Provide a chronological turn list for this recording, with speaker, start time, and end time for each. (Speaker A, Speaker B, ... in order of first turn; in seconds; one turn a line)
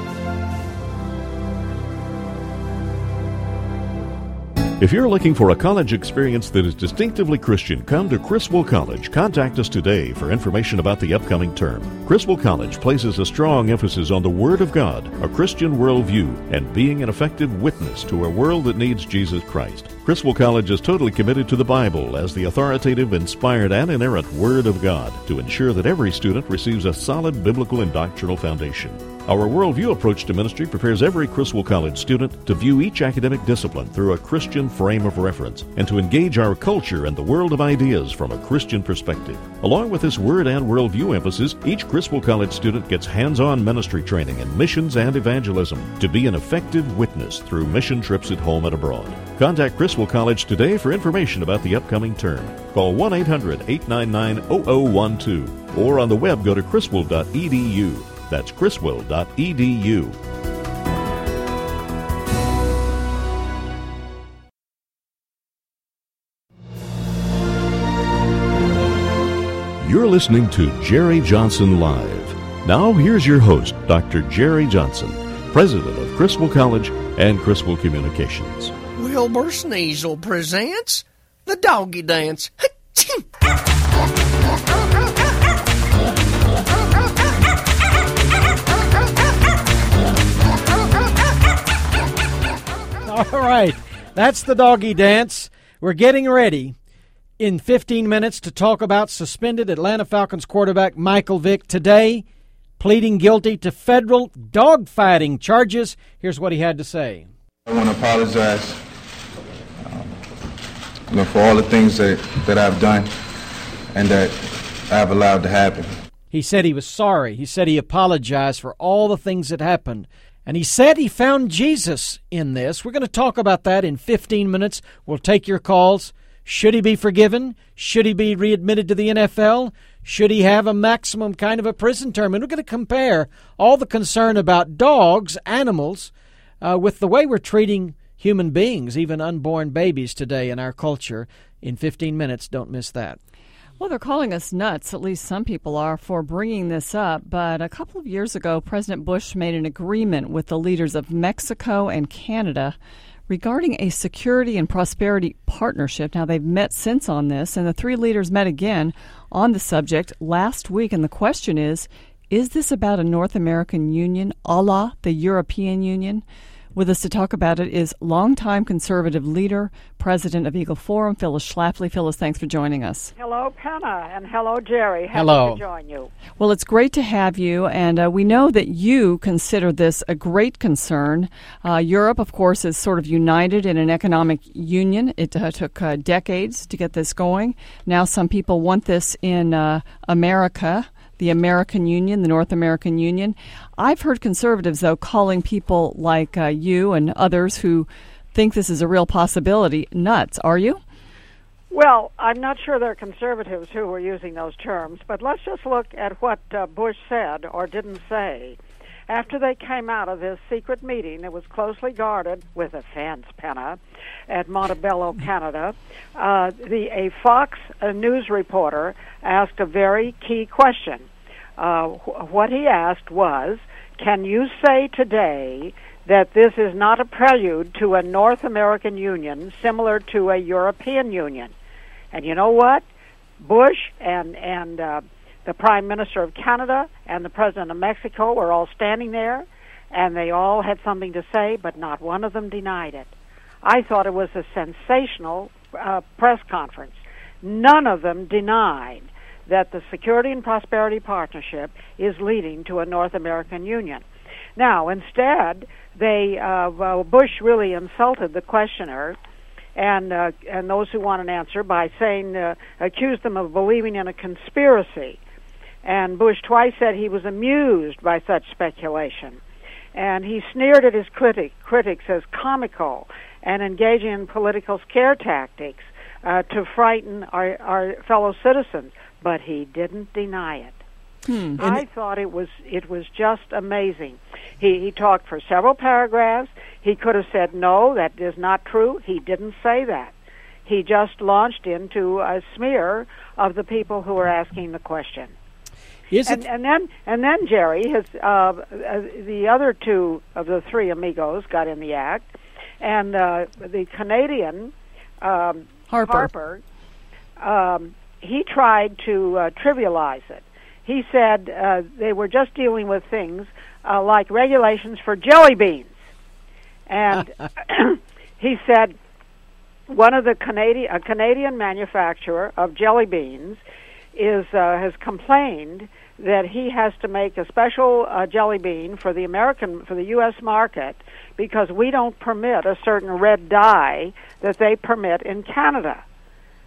Speaker A: 4.8-60.2
Speaker A: 69.8-78.7
Speaker B: 79.0-83.2
Speaker C: 93.0-96.8
Speaker C: 97.4-102.2
Speaker C: 102.8-107.3
Speaker D: 107.7-108.8
Speaker D: 109.8-110.2
Speaker D: 111.1-113.1
Speaker D: 113.9-115.9
Speaker C: 116.3-143.2
Speaker E: 143.8-152.8
Speaker E: 153.3-166.2
Speaker E: 166.8-173.1
Speaker F: 173.2-176.1
Speaker C: 175.1-175.6
Speaker E: 176.4-200.8
Speaker F: 201.7-231.5
Speaker F: 232.1-232.8
Speaker F: 233.4-243.1
Speaker F: 243.6-254.0
Speaker F: 254.6-259.2
Speaker F: 259.8-265.2
Speaker F: 265.8-269.4
Speaker F: 269.9-280.8
Speaker E: 281.3-281.6
Speaker C: 281.6-281.9
Speaker F: 281.6-290.1
Speaker F: 290.7-295.3
Speaker C: 296.1-296.4
Speaker F: 296.3-302.3
Speaker F: 302.8-306.6
Speaker E: 305.9-306.3
Speaker F: 307.4-316.0
Speaker F: 316.9-319.0
Speaker F: 319.9-323.6
Speaker F: 324.1-336.0